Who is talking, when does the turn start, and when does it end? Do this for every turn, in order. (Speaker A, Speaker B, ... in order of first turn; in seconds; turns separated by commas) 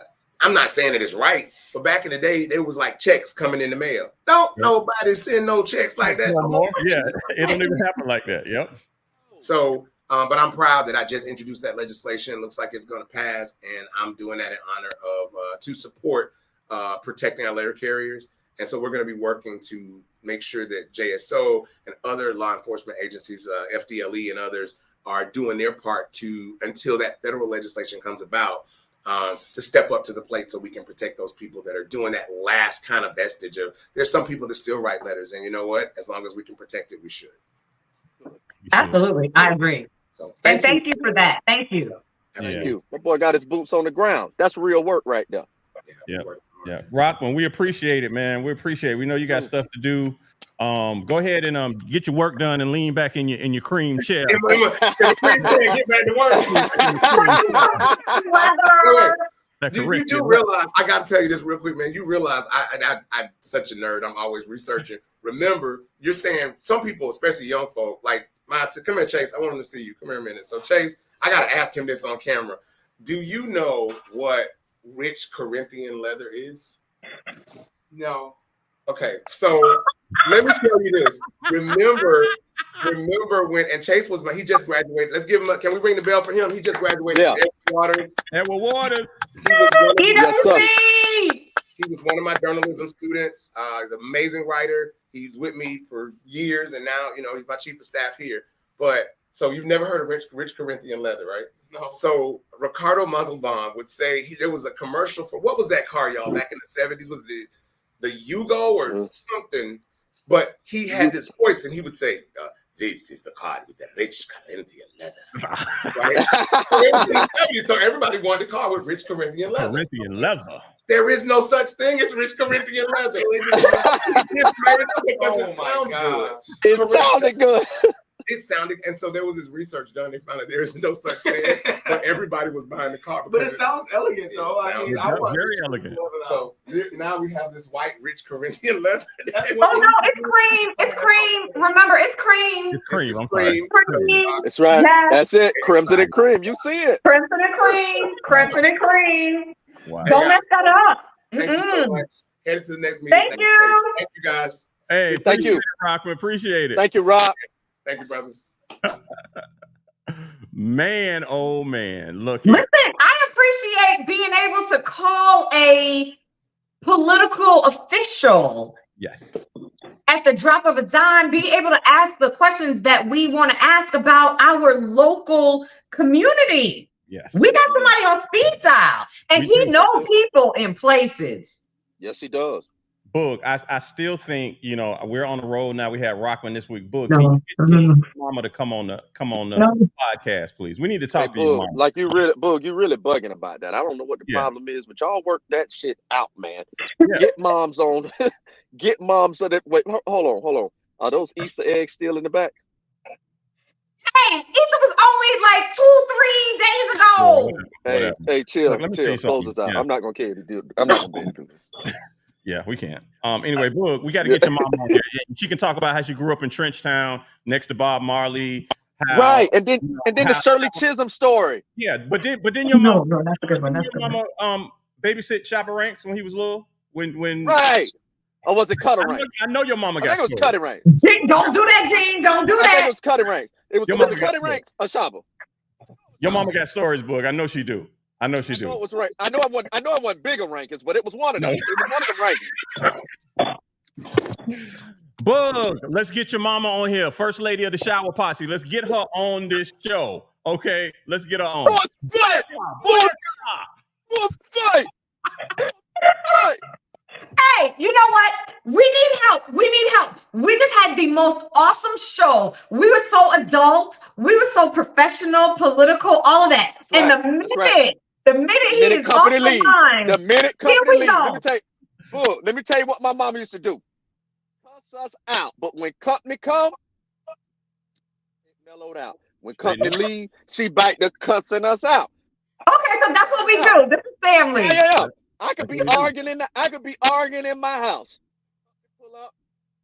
Speaker A: 0.4-7.7, Speaker B: 6.0-8.8, Speaker C: 9.2-9.5, Speaker A: 9.4-37.4, Speaker B: 38.7-39.0, Speaker D: 38.7-39.9, Speaker A: 40.1-40.8, Speaker D: 40.4-42.0, Speaker A: 42.3-42.8, Speaker C: 42.4-45.5, Speaker B: 42.4-42.7, Speaker A: 45.9-46.8, Speaker B: 46.1-54.5, Speaker A: 54.3-57.9, Speaker C: 54.5-55.6, Speaker C: 56.3-58.5, Speaker B: 56.6-57.8, Speaker D: 57.5-59.2, Speaker A: 58.8-59.2, Speaker B: 59.6-60.4, Speaker A: 59.7-76.8, Speaker E: 77.9-78.3, Speaker A: 78.9-88.2, Speaker C: 87.1-87.4, Speaker B: 88.3-89.1, Speaker A: 89.4-90.7, Speaker D: 90.0-91.5, Speaker C: 90.1-90.7, Speaker A: 91.8-115.2, Speaker E: 101.7-102.0, Speaker C: 110.9-111.2, Speaker B: 115.4-116.0, Speaker A: 115.9-119.9, Speaker C: 116.2-117.1, Speaker B: 119.6-120.7, Speaker A: 120.9-127.4, Speaker E: 123.1-124.0, Speaker C: 123.5-124.3, Speaker E: 125.2-126.5, Speaker C: 126.6-127.9, Speaker A: 128.2-135.3, Speaker E: 131.2-132.0, Speaker E: 133.3-136.4, Speaker B: 134.9-136.0, Speaker A: 136.2-139.9, Speaker E: 139.3-141.3, Speaker D: 139.6-142.8, Speaker B: 142.7-144.1, Speaker A: 142.8-144.5, Speaker D: 143.7-145.2, Speaker C: 144.4-147.0, Speaker A: 145.6-146.1, Speaker D: 147.0-152.0, Speaker B: 149.8-150.2, Speaker A: 150.0-150.8, Speaker A: 151.4-154.7, Speaker D: 153.1-154.0, Speaker B: 154.9-156.8, Speaker C: 155.1-155.6, Speaker C: 156.8-157.3, Speaker A: 157.8-158.6, Speaker B: 158.8-159.4, Speaker B: 160.1-162.7, Speaker D: 162.4-166.2, Speaker D: 166.8-168.8, Speaker B: 169.0-169.3, Speaker D: 170.1-181.6, Speaker B: 177.1-177.9, Speaker B: 179.3-179.9, Speaker C: 182.0-182.7, Speaker B: 183.1-191.8, Speaker D: 187.1-188.0, Speaker D: 189.5-189.9, Speaker C: 191.1-202.5, Speaker D: 204.1-207.6, Speaker B: 207.2-209.8, Speaker C: 207.8-211.6, Speaker B: 212.4-220.8, Speaker C: 214.2-214.9, Speaker C: 219.1-221.6, Speaker B: 221.8-227.9, Speaker D: 222.7-224.2, Speaker C: 227.4-227.9, Speaker C: 228.4-229.2, Speaker B: 228.8-230.5, Speaker C: 230.0-230.8, Speaker D: 230.8-232.9, Speaker C: 232.4-235.2, Speaker B: 233.9-234.6, Speaker B: 236.2-238.8, Speaker C: 238.5-242.5, Speaker B: 241.4-243.0, Speaker B: 244.5-251.8, Speaker C: 251.6-253.1, Speaker B: 252.3-253.7, Speaker C: 254.1-254.9, Speaker C: 256.3-256.6, Speaker D: 257.4-271.4, Speaker C: 266.9-267.8, Speaker C: 268.7-273.8, Speaker C: 274.6-276.8, Speaker C: 278.5-282.1, Speaker B: 279.6-280.0, Speaker D: 282.7-284.8, Speaker C: 283.4-283.8, Speaker C: 284.5-288.2, Speaker B: 285.6-286.1, Speaker C: 288.7-289.3